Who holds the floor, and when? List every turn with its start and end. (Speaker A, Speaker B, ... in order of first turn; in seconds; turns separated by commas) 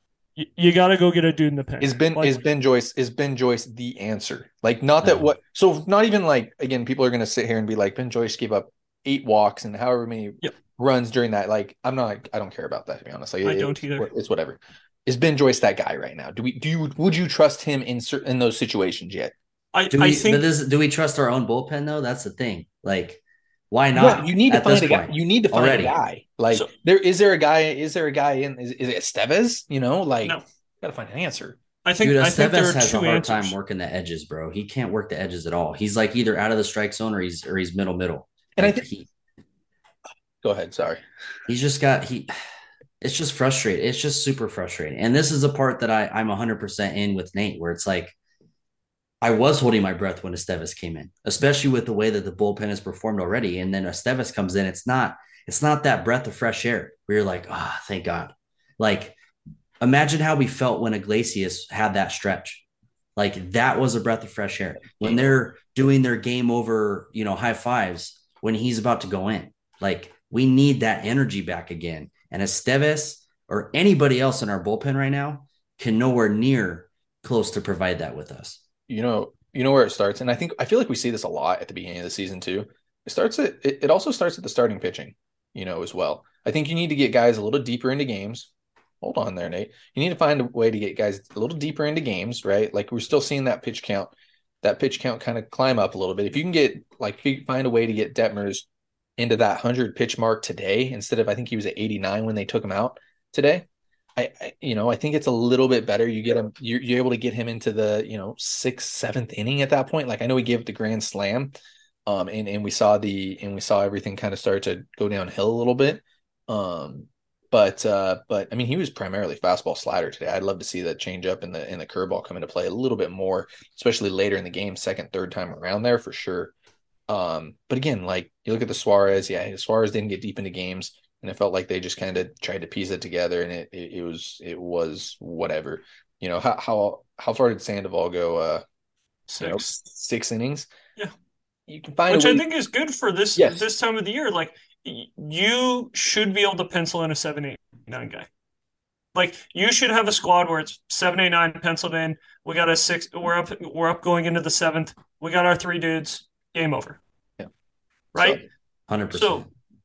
Speaker A: 0.4-2.4, Speaker B: 1.8-19.3, Speaker C: 5.0-5.3, Speaker A: 13.4-14.1, Speaker A: 19.7-20.5, Speaker C: 19.9-26.0, Speaker B: 23.9-31.6, Speaker A: 31.9-33.5, Speaker C: 32.0-39.1, Speaker B: 38.6-38.9, Speaker B: 40.4-41.0, Speaker C: 41.5-42.3, Speaker C: 43.0-48.1, Speaker C: 49.2-59.2, Speaker C: 59.8-62.6, Speaker C: 63.2-78.6, Speaker B: 78.9-88.5, Speaker B: 89.0-98.7, Speaker B: 99.2-103.7, Speaker B: 104.2-111.5, Speaker B: 112.1-126.5, Speaker B: 127.1-138.6, Speaker A: 139.3-139.8, Speaker B: 139.4-140.7, Speaker B: 141.7-142.4, Speaker A: 142.1-148.3, Speaker B: 143.4-143.7, Speaker A: 149.2-157.0, Speaker B: 158.1-158.4, Speaker A: 158.2-158.4, Speaker C: 158.9-159.5, Speaker A: 159.1-159.4